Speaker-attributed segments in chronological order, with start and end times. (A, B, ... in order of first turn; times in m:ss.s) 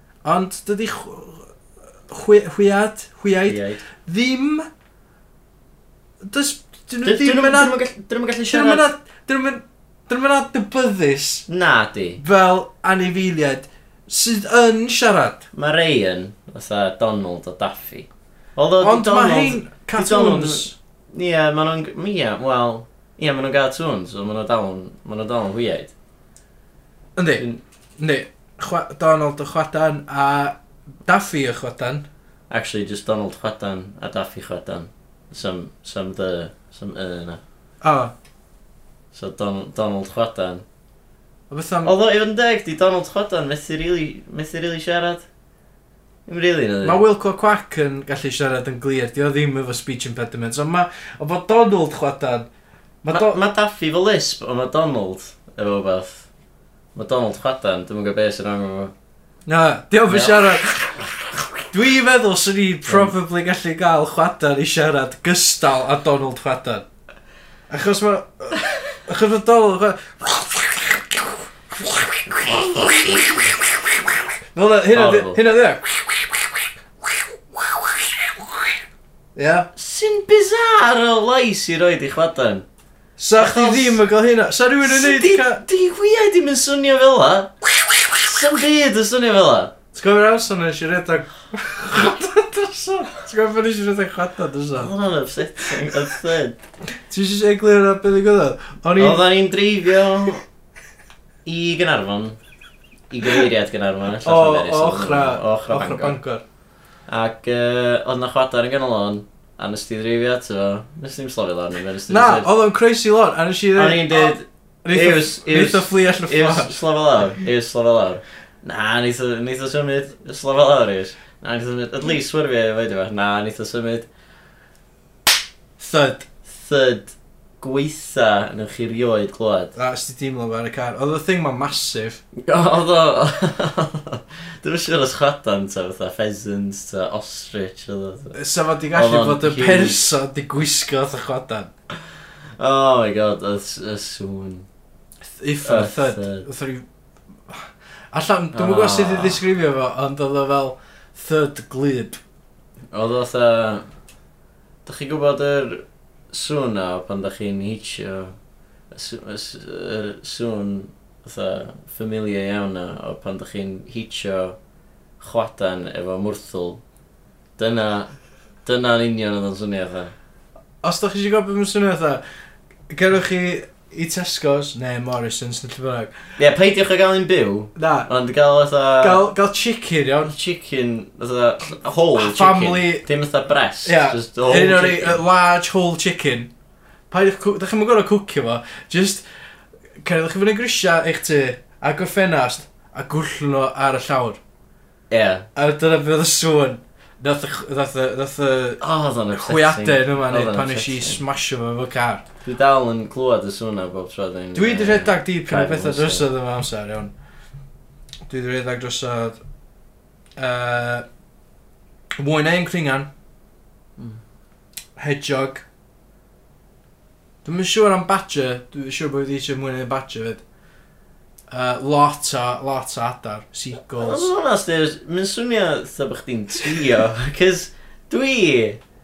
0:00.2-0:01.5 A
0:02.1-0:04.7 A
0:03.5-0:03.8 B
0:06.2-0:07.8 A
0:07.0-0:08.8 B
0:08.5-0:11.4 A
0:11.5-0:12.2 B
0:12.2-0:15.4 A
0:15.5-0:25.9 B
0:18.8-0:20.7 A
0:27.2-0:27.5 A
0:28.0-0:32.0 A
0:32.5-0:37.4 B
0:37.8-0:38.1 A
0:39.1-0:40.6 B
0:41.5-0:41.9 A
0:41.8-0:45.2 B
0:46.2-0:47.0 B
0:46.8-0:52.5 A
0:53.0-0:53.4 A
0:53.1-0:56.2 B
0:56.9-0:58.9 B
0:59.5-1:01.1 A
1:00.1-1:00.6 B
1:01.7-1:06.8 A
1:02.9-1:03.1 B
1:07.7-1:13.5 A
1:12.4-1:13.5 B
1:14.5-1:16.5 A
1:14.9-1:15.4 B
1:19.4-1:19.7 A
1:19.8-1:22.6 B
1:23.2-1:25.6 A
1:23.4-1:24.0 B
1:24.8-1:27.5 B
1:28.1-1:29.7 B
1:29.9-1:34.9 A
1:34.8-1:36.6 B
1:37.0-1:39.2 A
1:39.0-1:40.4 B
1:41.4-1:42.4 B
1:43.1-1:46.2 B
1:44.2-1:46.4 A
1:47.1-1:52.5 B
1:52.1-1:56.7 A
1:53.7-2:04.1 B
2:05.8-2:06.3 A
2:06.5-2:09.7 B
2:09.8-2:12.2 A
2:12.4-2:18.4 B
2:18.3-2:21.7 A
2:18.9-2:20.1 B
2:22.6-2:24.6 B
2:25.4-2:26.8 A
2:25.6-2:26.4 B
2:27.5-2:32.2 A
2:28.5-2:29.4 B
2:32.9-2:33.9 B
2:34.8-2:38.3 B
2:38.9-2:44.6 B
2:45.2-2:46.8 B
2:47.6-2:48.1 B
2:48.6-2:50.1 B
2:50.8-2:52.2 A
2:52.9-2:56.1 A
2:56.4-2:59.2 B
2:57.8-2:58.1 A
2:59.0-3:00.3 A
3:00.2-3:05.2 B
3:02.1-3:03.0 A
3:03.8-3:06.5 A
3:07.1-3:09.2 A
3:10.0-3:14.4 A
3:15.1-3:15.4 B
3:15.5-3:18.8 A
3:18.8-3:21.2 B
3:19.3-3:22.2 A
3:22.4-3:26.3 B
3:24.5-3:27.1 A
3:28.3-3:29.4 A
3:30.4-3:31.0 A
3:32.2-3:33.1 A
3:35.0-3:35.6 A
3:37.4-3:40.4 A
3:41.5-3:44.3 A
3:44.0-3:48.8 B